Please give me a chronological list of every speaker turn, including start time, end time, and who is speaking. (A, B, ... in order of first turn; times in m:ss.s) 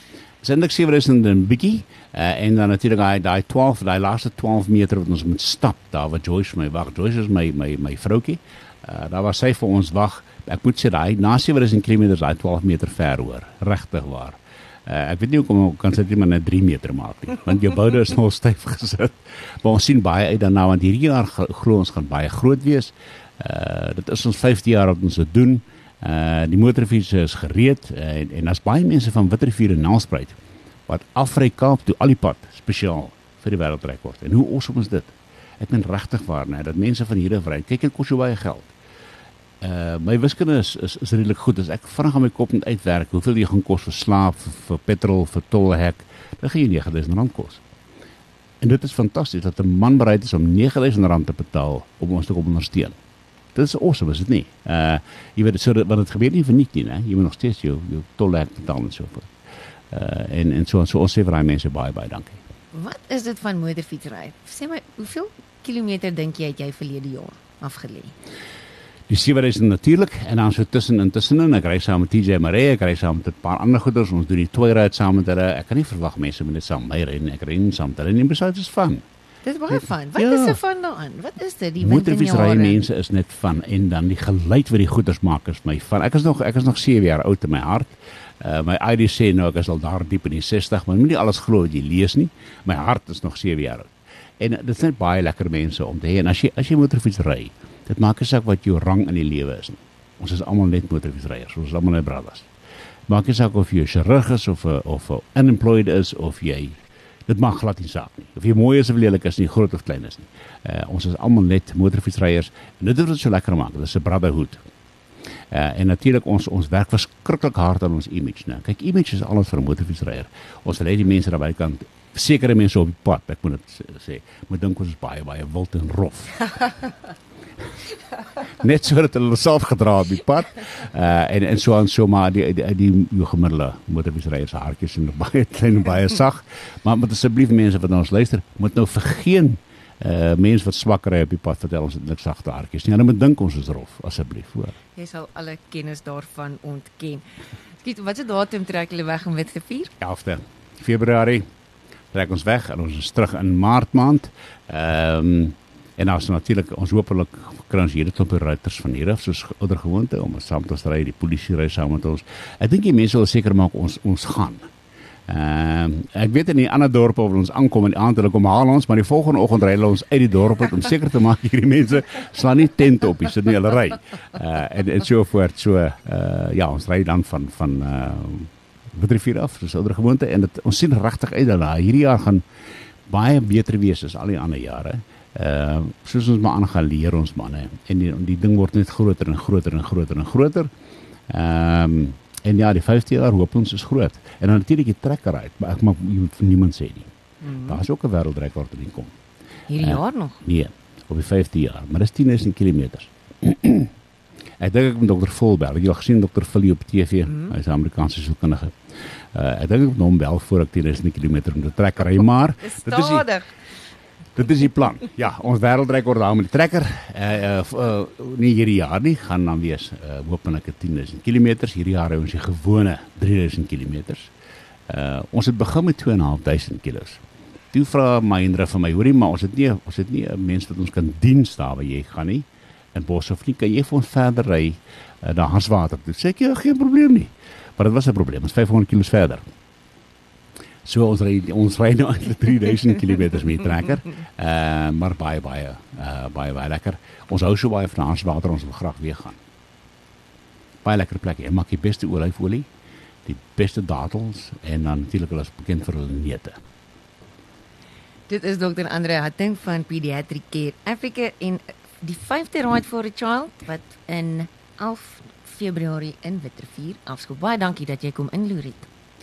0:00.4-0:30.4 A
0:30.9-0:38.7 A
0:39.6-0:47.6 A
0:48.6-0:52.9 A
0:53.5-0:59.3 A
0:59.9-1:02.4 A
1:02.7-1:08.1 B
1:09.1-1:19.0 A
1:19.4-1:22.8 B
1:19.7-1:20.6 A
1:21.8-1:42.5 A
1:43.1-1:54.6 A
1:55.5-2:06.4 A
2:08.6-2:24.8 A
2:24.9-2:27.2 B
2:27.8-2:29.9 B
2:30.0-2:31.4 A
2:32.1-2:44.7 A
2:45.3-3:02.4 A
3:03.1-3:10.7 A
3:11.3-3:19.1 A
3:17.4-3:17.8 B
3:19.7-3:20.4 B
3:19.8-3:23.9 A
3:24.6-3:28.7 A
3:29.3-3:33.3 A
3:32.6-3:33.5 B
3:34.4-3:44.3 A
3:44.9-3:59.4 A
4:00.8-4:09.4 A
4:10.8-4:12.7 A
4:13.2-4:16.6 A
4:18.3-4:28.9 B